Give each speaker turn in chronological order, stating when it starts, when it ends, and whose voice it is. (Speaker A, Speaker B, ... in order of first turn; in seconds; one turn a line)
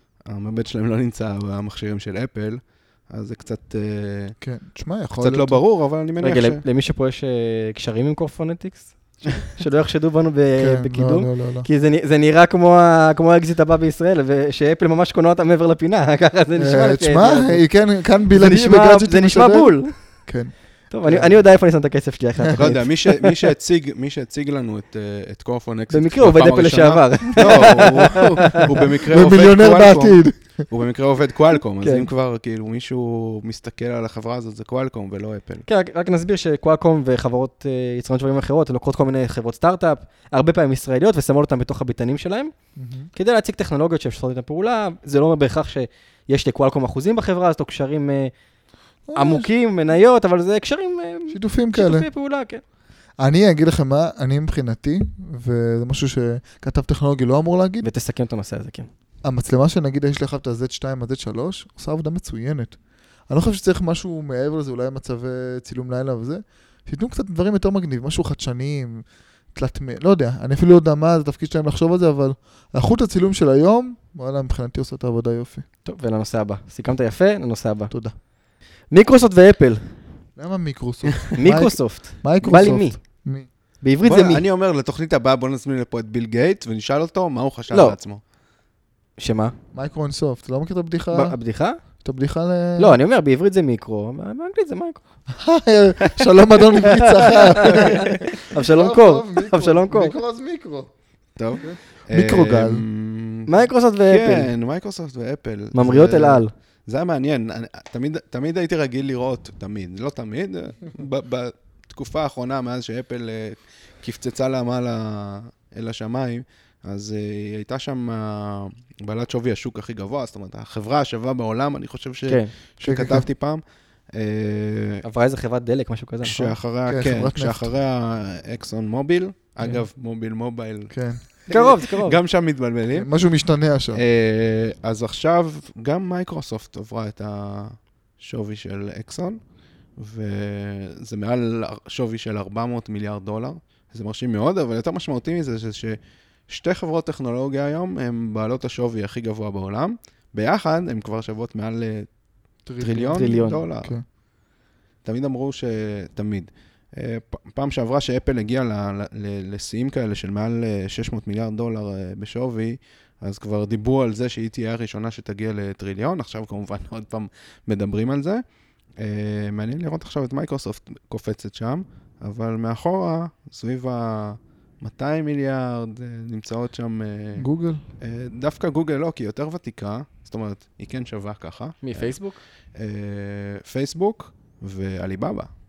Speaker A: 0.3-4.3
Speaker B: 4.4-5.6
Speaker A: 5.2-6.6
Speaker C: 6.2-17.6
Speaker B: 10.6-11.7
Speaker B: 16.6-19.7
Speaker C: 18.3-19.9
Speaker B: 20.2-20.5
Speaker C: 20.9-23.3
Speaker A: 22.6-35.6
Speaker C: 25.9-28.6
Speaker B: 27.4-30.6
Speaker C: 31.8-32.1
Speaker C: 35.7-42.5
Speaker B: 42.8-43.1
Speaker C: 43.1-48.3
Speaker B: 49.1-49.5
Speaker C: 49.1-52.6
Speaker B: 51.3-52.1
Speaker B: 53.2-57.9
Speaker C: 57.8-58.9
Speaker B: 59.2-62.8
Speaker B: 63.3-75.6
Speaker C: 75.8-77.9
Speaker C: 78.9-79.9
Speaker B: 80.4-83.5
Speaker C: 81.3-83.0
Speaker C: 83.8-84.4
Speaker A: 84.0-88.2
Speaker C: 87.7-88.0
Speaker C: 89.2-89.5
Speaker B: 89.7-91.3
Speaker C: 91.1-91.8
Speaker B: 92.0-93.0
Speaker C: 92.8-95.0
Speaker B: 95.3-100.9
Speaker C: 96.8-100.2
Speaker A: 101.4-103.5
Speaker B: 101.6-102.8
Speaker C: 103.5-104.5
Speaker A: 104.1-123.6
Speaker C: 105.7-106.5
Speaker C: 122.3-122.5
Speaker B: 122.8-123.2
Speaker A: 124.1-125.0
Speaker C: 125.0-126.5
Speaker A: 126.2-133.1
Speaker B: 126.9-127.7
Speaker B: 130.9-131.2
Speaker C: 131.5-132.2
Speaker B: 132.9-134.0
Speaker A: 133.9-139.4
Speaker A: 140.0-146.0
Speaker A: 146.5-152.1
Speaker B: 152.7-154.0
Speaker A: 152.8-153.9
Speaker C: 153.1-153.6
Speaker A: 155.0-168.4
Speaker A: 169.0-177.5
Speaker B: 177.4-177.8
Speaker A: 178.0-182.1
Speaker C: 181.8-182.4
Speaker A: 182.7-185.5